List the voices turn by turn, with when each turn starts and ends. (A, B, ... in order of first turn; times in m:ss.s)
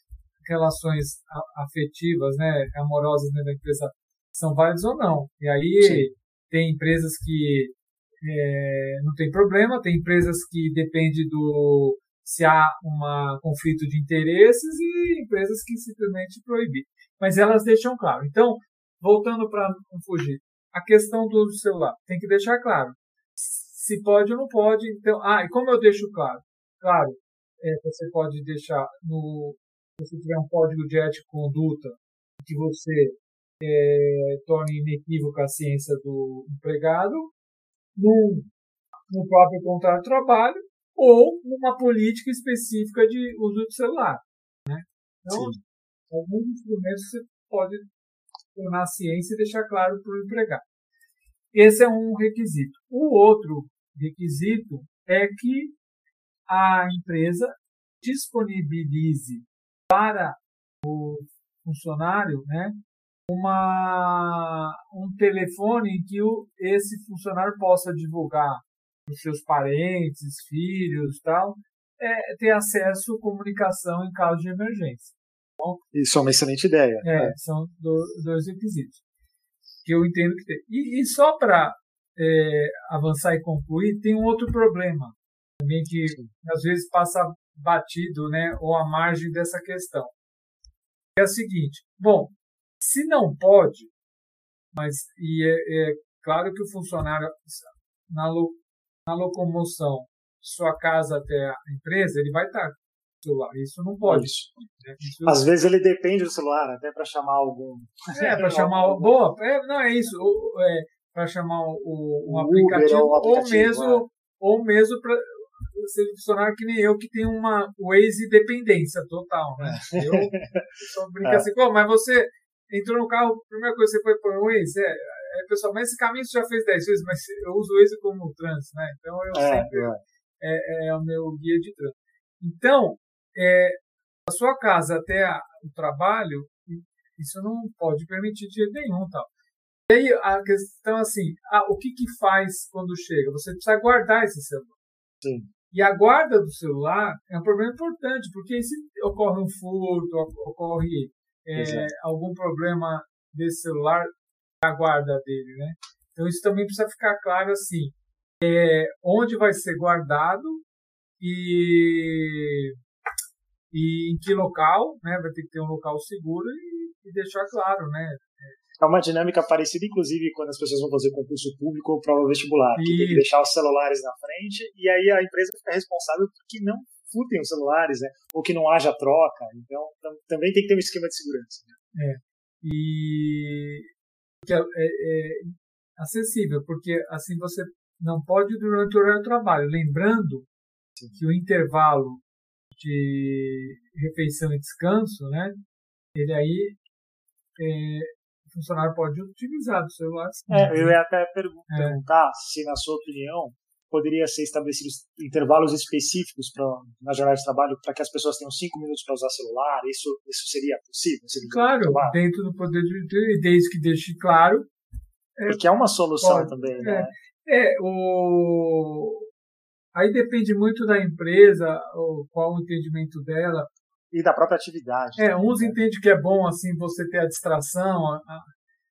0:00.4-0:37.3 A
0:05.8-0:06.1 B
0:38.0-0:38.5 A
0:39.1-0:45.6 A
0:45.3-0:45.6 B
0:46.1-0:47.9 A
0:48.5-0:50.6 A
0:51.5-0:55.8 A
0:56.5-1:15.8 A
1:15.9-1:17.4 B
1:17.0-1:19.0 A
1:19.8-1:30.1 A
1:31.2-1:33.9 A
1:34.7-1:45.4 A
1:44.0-1:44.6 B
1:45.2-1:49.1 B
1:48.1-2:19.3 A
1:52.2-1:54.0 B
1:59.6-2:01.5 B
2:09.3-2:10.0 B
2:19.9-2:24.8 A
2:25.2-2:25.5 B
2:25.7-2:40.6 A
2:31.5-2:31.9 B
2:41.2-2:42.8 A
2:43.7-2:48.6 A
2:48.8-3:01.8 B
2:52.8-2:53.3 A
3:01.9-3:03.9 A
3:04.4-3:10.5 A
3:11.1-3:15.6 A
3:16.1-3:16.8 A
3:17.6-3:20.9 A
3:20.5-3:32.2 B
3:21.7-3:22.0 A
3:31.4-3:34.7 A
3:35.5-3:37.1 B
3:36.2-3:39.3 A
3:39.9-3:43.7 A
3:44.1-3:45.8 B
3:45.2-3:48.5 A